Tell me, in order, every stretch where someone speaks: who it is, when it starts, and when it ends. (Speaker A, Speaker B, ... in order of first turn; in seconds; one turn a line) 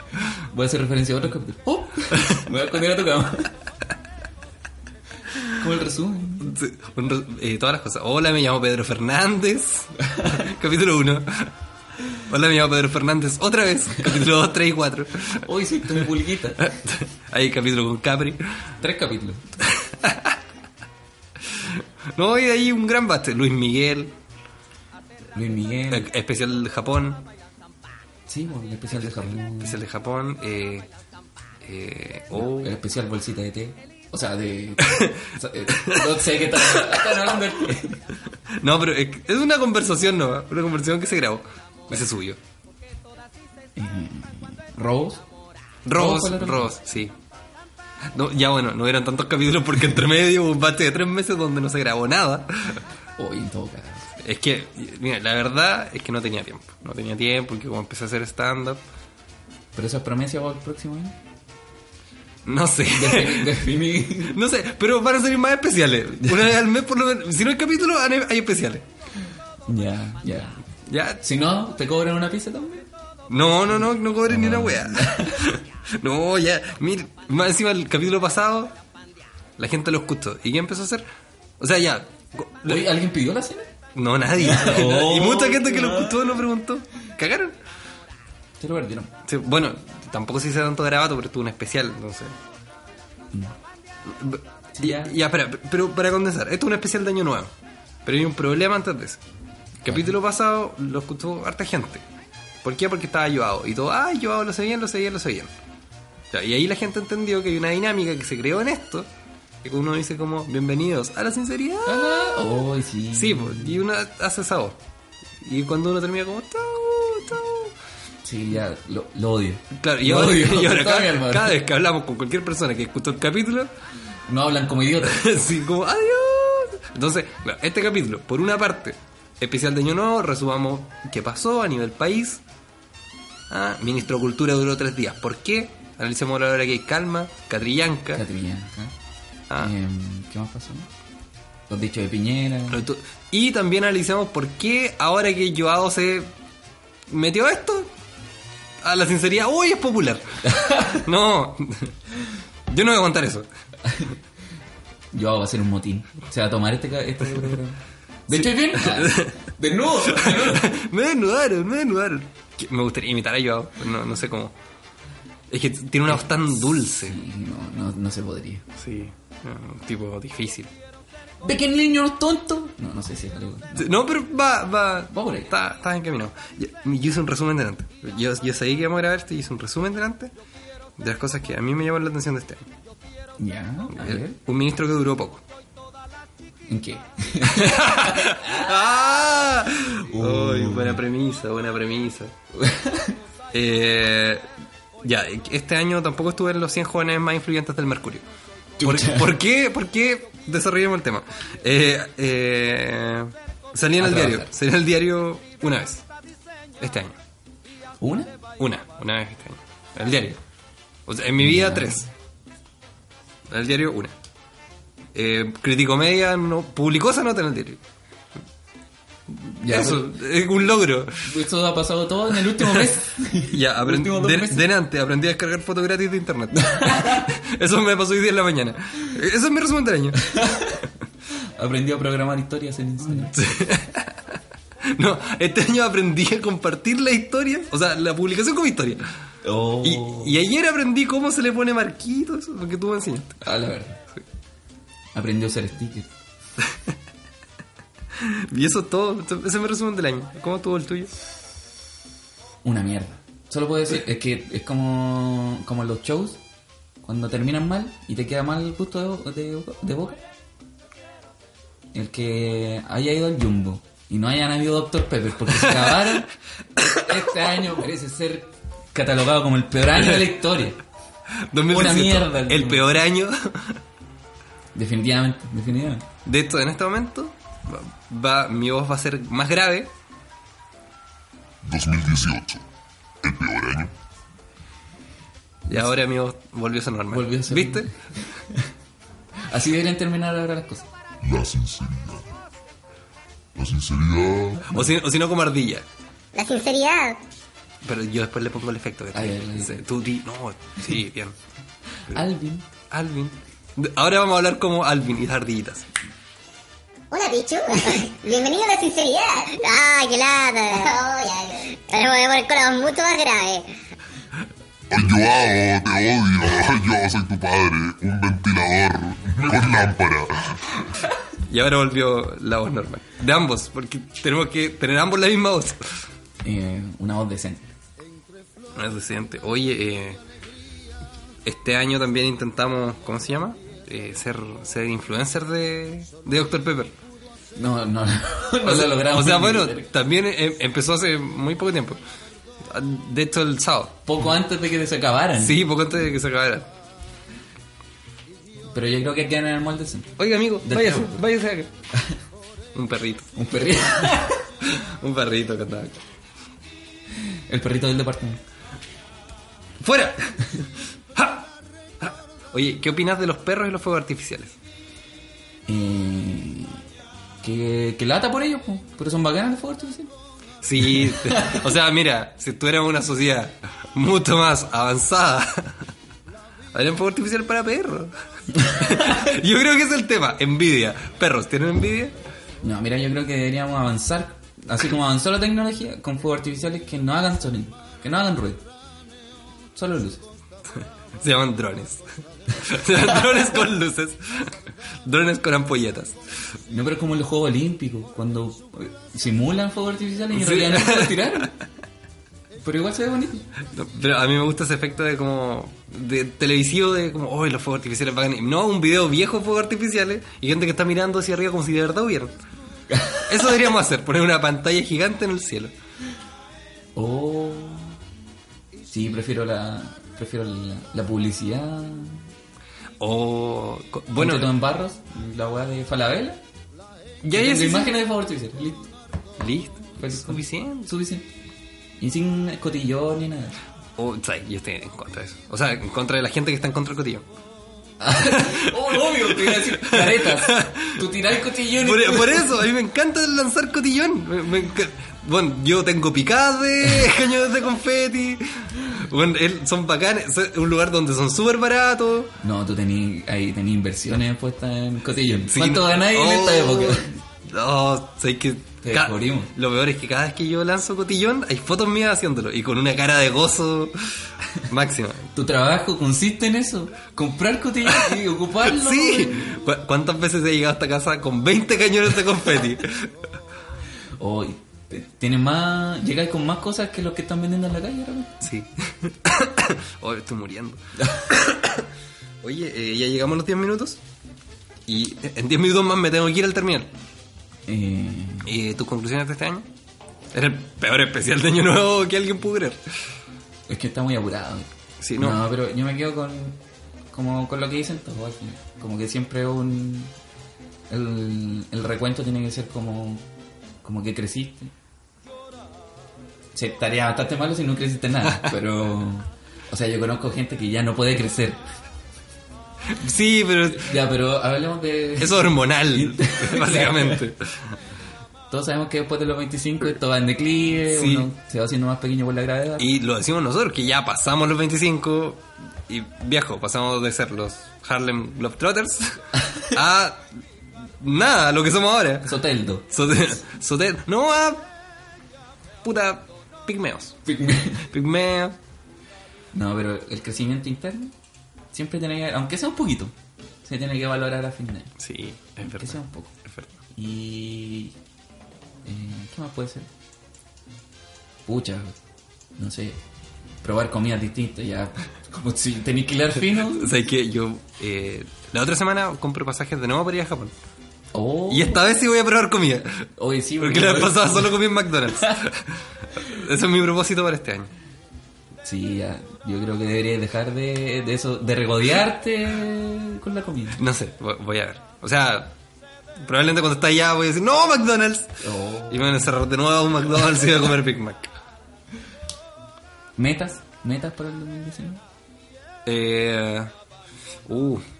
Speaker A: 0.5-3.5
Speaker A: 5.5-6.5
Speaker B: 6.4-11.5
Speaker B: 12.2-16.1
Speaker A: 15.4-16.7
Speaker B: 16.6-18.4
Speaker A: 18.8-19.4
Speaker B: 20.0-20.3
Speaker B: 21.5-24.1
Speaker A: 25.3-26.1
Speaker B: 25.9-27.3
Speaker A: 28.3-29.8
Speaker B: 28.9-30.9
Speaker B: 31.6-32.7
Speaker A: 32.3-38.0
Speaker B: 35.8-37.1
Speaker B: 38.6-42.4
Speaker A: 43.8-45.2
Speaker B: 45.8-47.1
Speaker A: 45.9-46.8
Speaker B: 48.1-52.8
Speaker A: 53.2-54.1
Speaker B: 54.2-58.8
Speaker A: 59.7-61.1
Speaker B: 62.4-68.8
Speaker A: 62.9-64.3
Speaker A: 69.7-70.6
Speaker B: 70.9-71.2
Speaker A: 71.2-72.8
Speaker B: 73.3-78.7
Speaker A: 74.2-75.4
Speaker B: 79.6-81.0
Speaker B: 81.6-82.8
Speaker A: 82.6-83.7
Speaker B: 83.9-87.5
Speaker A: 84.3-86.4
Speaker A: 88.6-89.1
Speaker B: 89.2-92.3
Speaker B: 94.1-97.5
Speaker A: 94.8-95.1
Speaker B: 98.0-99.2
Speaker A: 99.8-100.1
Speaker B: 99.8-102.0
Speaker B: 102.6-105.5
Speaker B: 106.3-109.1
Speaker B: 109.6-112.5
Speaker A: 111.8-113.8
Speaker B: 113.1-114.8
Speaker B: 115.4-117.7
Speaker A: 118.2-121.6
Speaker B: 119.8-123.7
Speaker A: 124.3-125.3
Speaker B: 125.0-132.4
Speaker B: 133.5-138.2
Speaker A: 138.1-138.9
Speaker A: 139.6-140.9
Speaker A: 141.7-142.8
Speaker B: 142.7-146.3
Speaker B: 147.1-147.9
Speaker B: 148.8-151.9
Speaker A: 150.4-151.0
Speaker B: 152.7-153.5
Speaker A: 153.8-154.1
Speaker A: 155.1-160.7
Speaker B: 158.3-159.4
Speaker B: 160.1-164.5
Speaker B: 165.5-167.2
Speaker A: 166.1-168.6
Speaker B: 168.8-170.7
Speaker A: 171.4-173.9
Speaker B: 173.7-180.3
Speaker A: 175.1-175.5
Speaker B: 181.0-182.7
Speaker A: 183.4-184.4
Speaker B: 183.9-185.4
Speaker A: 186.7-188.7
Speaker B: 187.5-192.3
Speaker A: 190.1-191.0
Speaker A: 192.5-193.2
Speaker B: 193.5-194.4
Speaker B: 195.0-198.2
Speaker A: 198.8-199.3
Speaker B: 198.8-206.0
Speaker A: 204.0-204.5
Speaker B: 206.8-207.2
Speaker A: 208.0-208.3
Speaker B: 208.6-210.4
Speaker B: 211.1-212.1
Speaker A: 211.4-212.0
Speaker B: 213.5-214.1
Speaker B: 215.1-217.8
Speaker B: 219.3-221.1
Speaker A: 219.6-220.1
Speaker A: 221.2-224.7
Speaker B: 222.5-222.9
Speaker B: 223.4-230.3
Speaker A: 226.5-227.3
Speaker A: 230.2-230.8
Speaker A: 231.6-233.4
Speaker B: 233.3-234.1
Speaker B: 234.9-239.0
Speaker A: 239.4-240.4
Speaker B: 239.8-243.4
Speaker A: 243.4-244.0
Speaker A: 245.1-246.1
Speaker B: 248.2-251.1
Speaker A: 252.6-256.4
Speaker A: 257.0-260.2
Speaker A: 261.9-270.8
Speaker B: 265.5-266.2
Speaker B: 269.9-270.3
Speaker B: 271.5-273.7
Speaker A: 271.7-273.0
Speaker A: 274.7-276.0
Speaker B: 276.2-279.9
Speaker C: 281.6-282.6
Speaker C: 283.2-283.9
Speaker B: 285.6-287.9
Speaker A: 287.1-288.6
Speaker A: 289.5-290.9
Speaker C: 291.2-292.2
Speaker D: 291.7-292.1
Speaker C: 293.6-294.4
Speaker D: 293.6-294.3
Speaker B: 294.7-295.8
Speaker D: 296.3-297.2
Speaker B: 297.8-301.3
Speaker A: 299.1-299.9
Speaker A: 302.1-302.6
Speaker B: 302.9-305.9
Speaker D: 307.1-313.7
Speaker C: 314.9-320.3
Speaker D: 315.2-315.5
Speaker D: 316.6-317.0
Speaker D: 319.4-319.7
Speaker B: 321.5-325.8
Speaker A: 326.4-327.7
Speaker B: 328.7-330.2
Speaker B: 331.4-336.9
Speaker A: 337.6-339.9
Speaker B: 338.6-342.0
Speaker B: 342.7-344.0
Speaker A: 344.1-345.6
Speaker B: 345.4-346.7
Speaker A: 348.7-351.2
Speaker B: 350.2-351.7
Speaker B: 352.7-353.2
Speaker A: 353.4-354.4
Speaker B: 354.6-356.0
Speaker A: 357.5-358.4
Speaker B: 359.8-360.6
Speaker B: 361.1-361.5
Speaker B: 362.0-364.6
Speaker A: 365.7-366.8
Speaker A: 367.4-370.1
Speaker B: 370.6-375.7
Speaker A: 370.8-371.6
Speaker B: 376.7-382.1
Speaker A: 382.6-388.6
Speaker A: 389.7-390.2
Speaker B: 391.2-396.2
Speaker A: 396.7-401.5
Speaker B: 400.3-401.5
Speaker A: 402.6-403.5
Speaker B: 403.7-412.3
Speaker A: 412.9-413.4
Speaker B: 413.2-415.7
Speaker A: 416.9-418.0
Speaker A: 418.9-422.2
Speaker B: 423.0-424.5
Speaker A: 424.1-426.4
Speaker B: 427.2-428.0
Speaker A: 427.3-428.9
Speaker B: 429.4-430.9
Speaker A: 430.0-431.2
Speaker A: 432.0-433.6
Speaker B: 434.0-437.2
Speaker A: 438.0-442.6
Speaker B: 438.2-441.1
Speaker B: 441.8-452.3
Speaker A: 452.4-457.1
Speaker B: 455.5-463.9
Speaker A: 458.8-459.5
Speaker B: 464.6-465.3
Speaker A: 465.3-469.5
Speaker B: 467.9-473.1
Speaker A: 474.2-478.5
Speaker B: 478.4-481.8
Speaker B: 482.4-484.0
Speaker B: 484.9-486.9
Speaker A: 487.7-488.5
Speaker B: 488.4-489.6
Speaker B: 490.3-492.8
Speaker A: 493.7-496.6
Speaker B: 495.0-495.4
Speaker A: 497.1-500.1
Speaker A: 500.9-503.2
Speaker A: 503.8-504.7
Speaker A: 506.5-511.6
Speaker B: 512.9-514.0
Speaker A: 513.7-517.2
Speaker B: 515.2-517.4
Speaker A: 518.5-522.9
Speaker B: 520.9-521.3
Speaker B: 522.8-530.2
Speaker B: 531.0-532.3
Speaker A: 532.2-533.4
Speaker B: 532.9-534.6
Speaker B: 535.8-537.2
Speaker A: 537.2-537.9
Speaker B: 537.9-538.6
Speaker A: 539.5-541.1
Speaker A: 541.7-543.1
Speaker A: 543.6-544.9
Speaker B: 545.0-546.7
Speaker A: 545.6-546.3
Speaker A: 547.0-547.9
Speaker A: 548.8-549.9
Speaker A: 551.5-552.0
Speaker A: 552.6-553.0
Speaker A: 553.6-557.0
Speaker B: 556.5-560.5
Speaker A: 561.1-561.8
Speaker B: 561.5-562.9
Speaker A: 563.2-565.3
Speaker B: 563.6-567.7
Speaker A: 568.6-573.8
Speaker B: 573.8-575.5
Speaker B: 576.2-578.3
Speaker A: 578.4-579.3
Speaker B: 578.9-581.3
Speaker A: 583.2-585.0
Speaker B: 585.9-586.7
Speaker B: 587.5-587.8